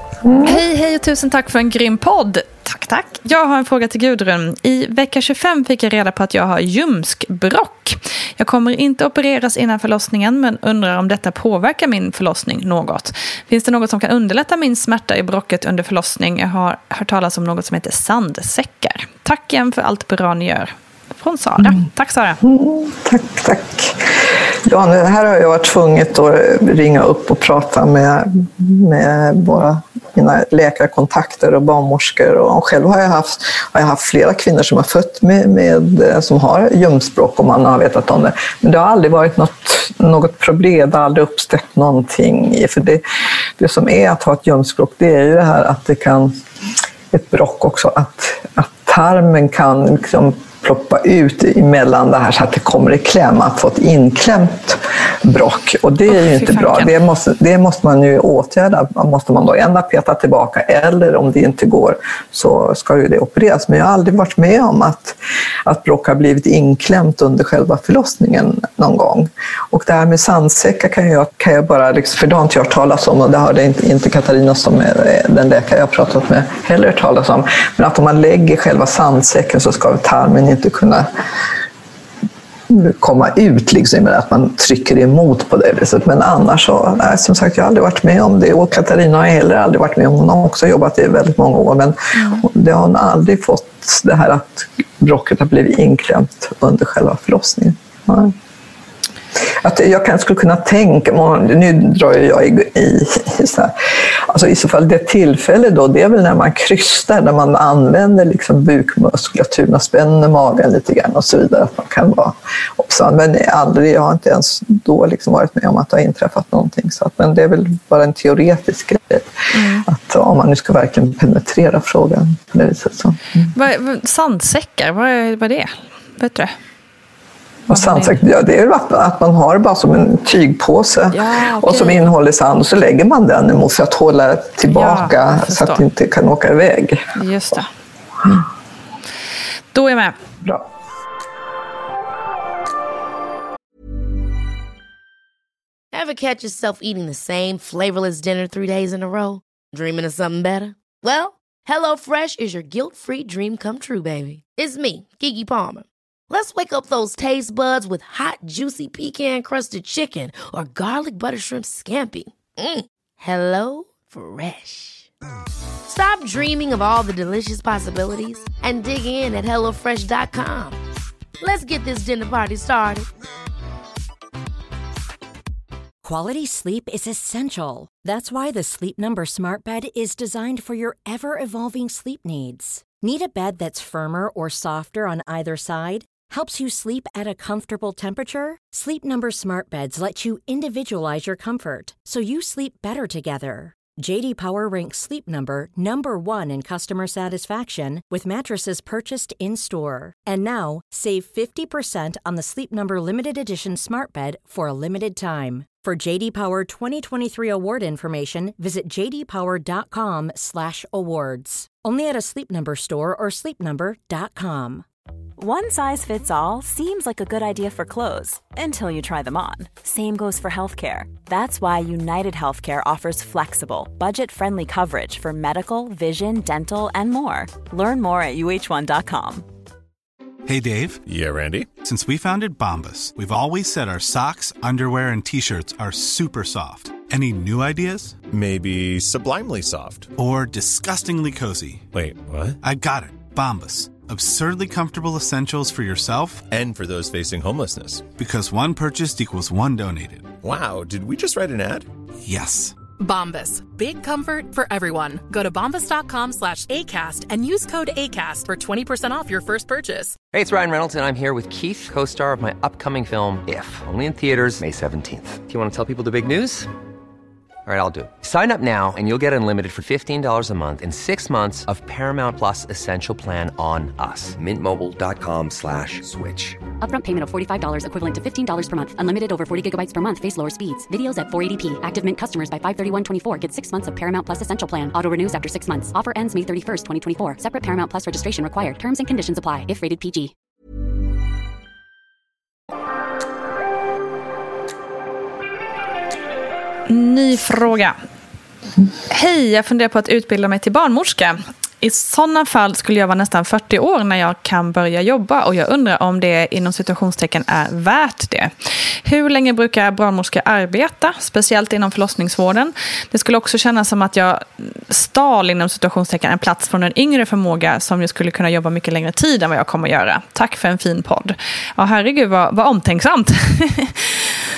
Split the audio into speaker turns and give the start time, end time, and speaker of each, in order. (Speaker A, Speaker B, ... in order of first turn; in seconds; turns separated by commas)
Speaker A: 0.2-0.6, Speaker B: 0.4-22.4, Speaker A: 22.4-43.0, Speaker A: 43.6-46.4, Speaker A: 47.1-81.1, Speaker B: 56.1-56.9, Speaker A: 82.7-98.3, Speaker B: 92.1-92.5, Speaker A: 99.5-103.7, Speaker A: 104.3-119.3, Speaker B: 119.5-119.9, Speaker A: 119.8-123.5, Speaker B: 123.5-126.5, Speaker A: 127.7-137.1, Speaker B: 127.7-128.2, Speaker B: 131.1-132.1, Speaker B: 134.7-135.8, Speaker B: 137.2-137.7, Speaker B: 139.7-140.2, Speaker C: 145.9-165.1, Speaker C: 165.9-170.8, Speaker C: 171.4-173.1, Speaker D: 176.0-214.9, Speaker E: 215.4-229.5, Speaker F: 230.5-231.0, Speaker G: 231.1-231.8, Speaker F: 231.8-238.3, Speaker G: 238.3-240.1, Speaker F: 240.2-241.9, Speaker G: 241.9-242.6, Speaker F: 242.6-246.5, Speaker G: 246.5-248.1, Speaker F: 248.2-250.4, Speaker G: 250.4-251.9, Speaker F: 252.2-252.8, Speaker H: 253.0-260.2, Speaker I: 260.3-266.7, Speaker I: 267.7-276.6, Speaker J: 276.8-290.3, Speaker B: 296.9-297.9, Speaker B: 299.1-308.5, Speaker B: 309.0-324.4